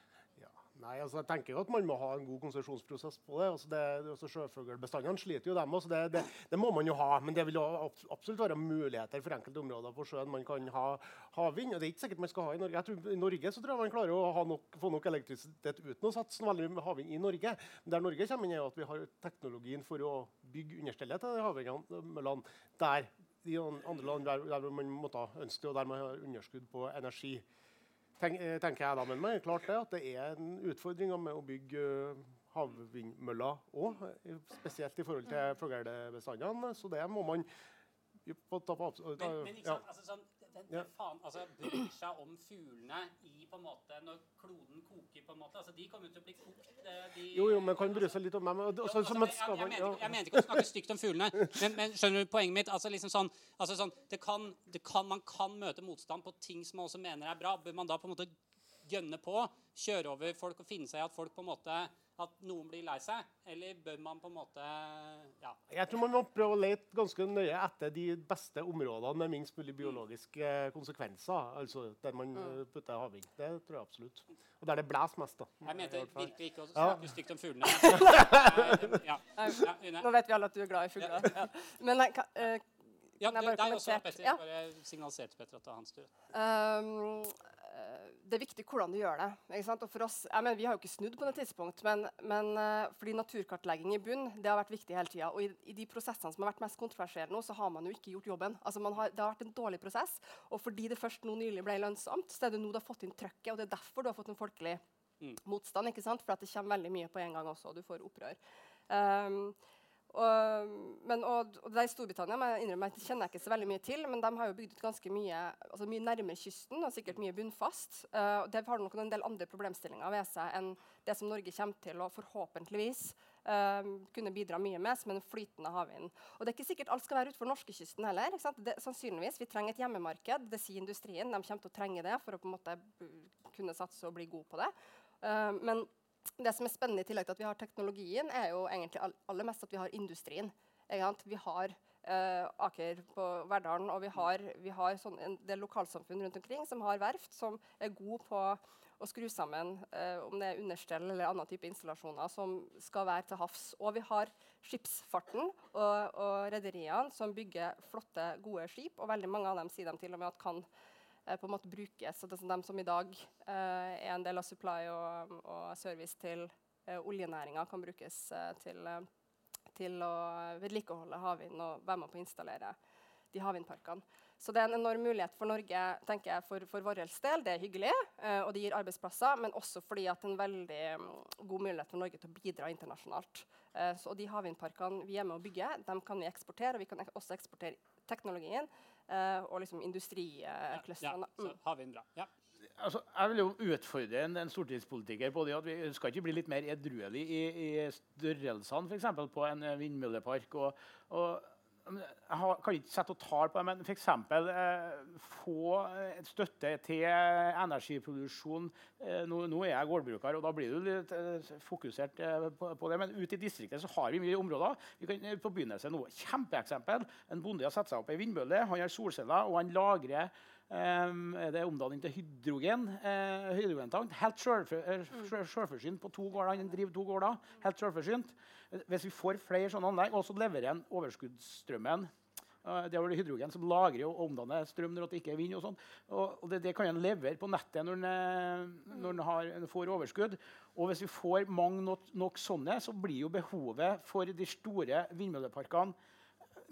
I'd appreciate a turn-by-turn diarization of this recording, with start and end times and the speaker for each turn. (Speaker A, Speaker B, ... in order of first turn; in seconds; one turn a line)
Speaker A: 0.4-27.4
Speaker A: 28.2-37.5
Speaker A: 38.2-39.8
Speaker B: 39.2-48.2
Speaker A: 47.3-50.7
Speaker B: 48.8-65.6
Speaker A: 65.7-77.1
Speaker B: 75.7-80.1
Speaker C: 77.8-78.5
Speaker A: 78.0-79.0
Speaker C: 79.4-82.7
Speaker B: 81.0-81.3
Speaker C: 83.2-84.4
Speaker B: 83.2-86.1
Speaker C: 86.3-104.8
Speaker C: 105.4-108.4
Speaker C: 108.9-109.6
Speaker C: 110.1-160.7
Speaker C: 161.3-169.1
Speaker C: 169.7-172.8
Speaker C: 173.3-191.6
Speaker B: 190.7-192.3
Speaker D: 192.8-232.1
Speaker D: 232.6-245.9